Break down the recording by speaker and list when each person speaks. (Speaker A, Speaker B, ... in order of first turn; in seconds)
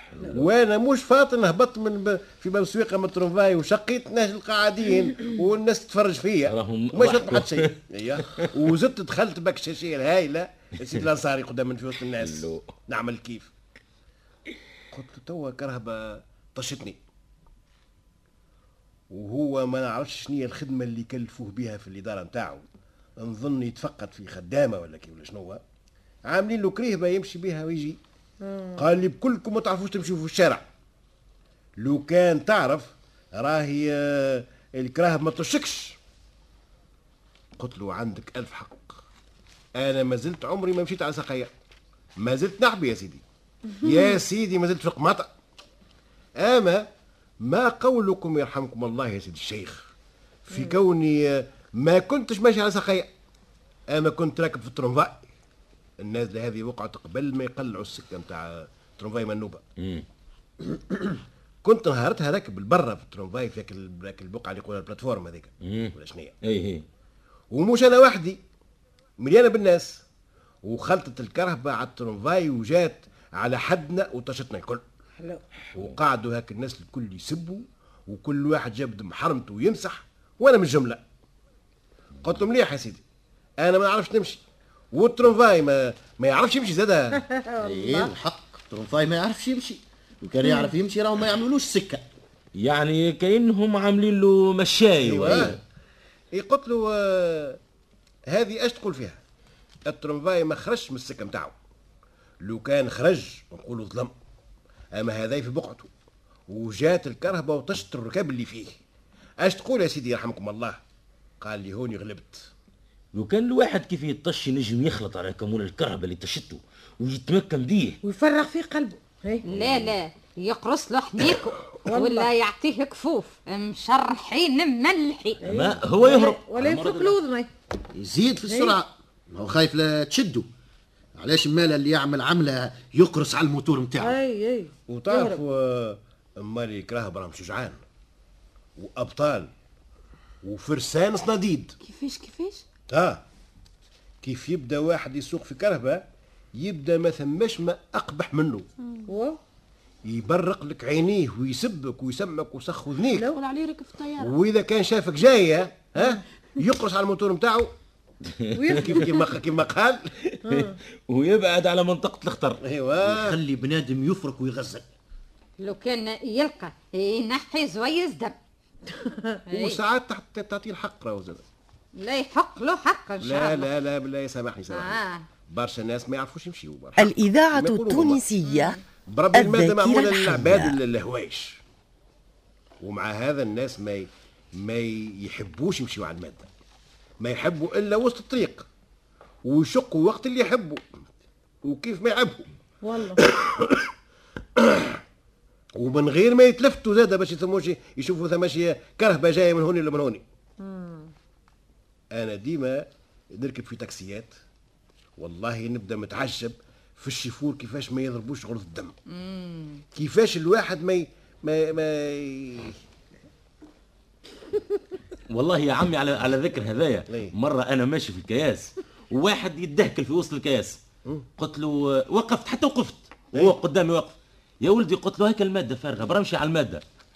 Speaker A: 0.1-0.4, 6.5-7.7, 12.2-12.7, 59.8-60.0, 65.7-66.8, 92.5-95.6, 113.1-118.0, 119.5-119.9, 125.5-127.2, 158.3-159.1, 160.3-162.6, 215.3-220.8, 221.4-226.8
Speaker B: 0.2-13.5, 14.9-17.0, 19.1-22.6, 23.2-25.6, 26.2-28.0, 28.8-30.6, 31.8-36.0, 37.6-39.0, 39.8-41.5, 42.2-43.2, 43.8-45.3, 46.4-46.9, 47.4-49.9, 50.5-53.1, 53.9-55.3, 56.0-59.6, 61.6-66.3, 67.5-68.4, 69.2-70.0, 70.6-74.8, 75.7-81.0, 82.2-83.0, 83.6-84.4, 84.9-87.3, 95.0-95.6, 96.3-97.6, 98.3-99.2, 99.9-101.5, 102.4-104.1, 104.9-105.9, 106.5-108.8, 109.4-110.8, 111.4-112.5, 134.9-137.8, 138.8-139.5, 140.4-141.7, 142.9-143.2, 144.2-148.7, 150.0-153.3, 154.2-157.7, 158.7-160.0, 162.6-163.4, 169.5-171.4, 173.2-178.2, 179.0-181.6, 182.8-186.5, 187.2-188.7, 189.4-190.8, 191.6-192.4, 193.2-193.9, 194.6-195.0, 195.8-200.2, 202.1-204.4, 205.2-208.9, 209.9-212.8, 217.1-217.3
Speaker C: 28.4-28.8, 50.5-50.8, 87.3-88.1, 90.5-90.7, 118.0-119.4, 121.8-122.3, 125.4-127.5, 128.5-128.7, 134.0-135.4, 149.1-149.4, 158.5-159.1, 160.5-160.8, 192.8-193.2, 200.6-201.1
Speaker D: 87.6-92.0, 127.9-130.5, 131.2-134.2, 163.0-164.9
Speaker E: 119.5-125.4, 165.6-168.3, 169.5-169.8, 172.0-173.7, 174.7-175.2, 178.4-178.8, 209.1-209.8
Speaker F: 141.8-142.6, 153.2-154.3
Speaker G: 177.0-178.8, 179.3-180.7